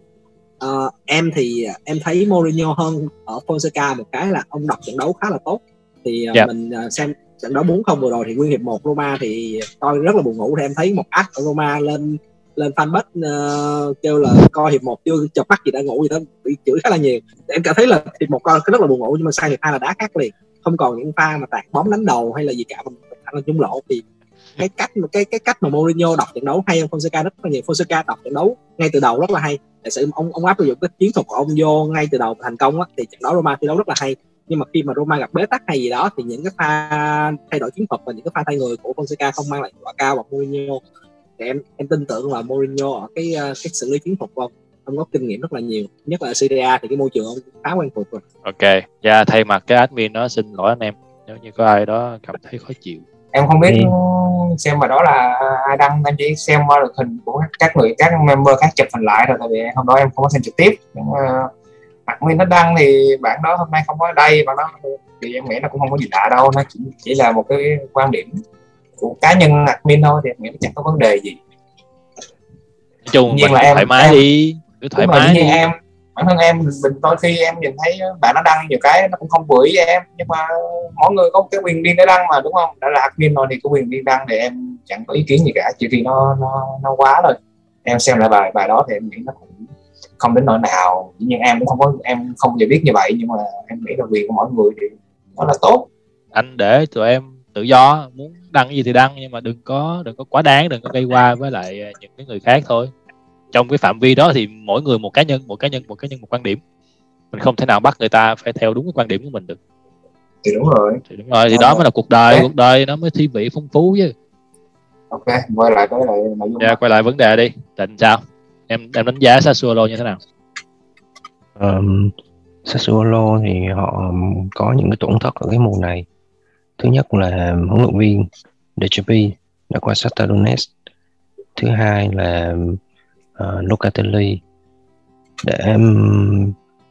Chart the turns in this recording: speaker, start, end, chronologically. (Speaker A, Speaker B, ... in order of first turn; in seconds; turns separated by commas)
Speaker A: 0.6-24.0, Speaker A: 24.6-40.8, Speaker A: 41.4-48.2, Speaker B: 48.4-53.0, Speaker C: 53.3-61.5, Speaker C: 62.1-68.3, Speaker C: 69.0-71.4, Speaker B: 73.0-75.6, Speaker C: 73.3-74.2, Speaker C: 75.0-89.6, Speaker C: 90.2-95.9, Speaker B: 96.3-102.9, Speaker B: 103.5-106.6, Speaker B: 107.3-109.6, Speaker C: 110.4-112.5, Speaker B: 111.1-114.1, Speaker C: 115.1-116.8, Speaker B: 116.6-120.2, Speaker D: 121.6-122.1, Speaker D: 122.6-126.0, Speaker D: 126.8-130.7, Speaker D: 131.6-132.8, Speaker D: 133.3-134.4, Speaker D: 135.4-136.6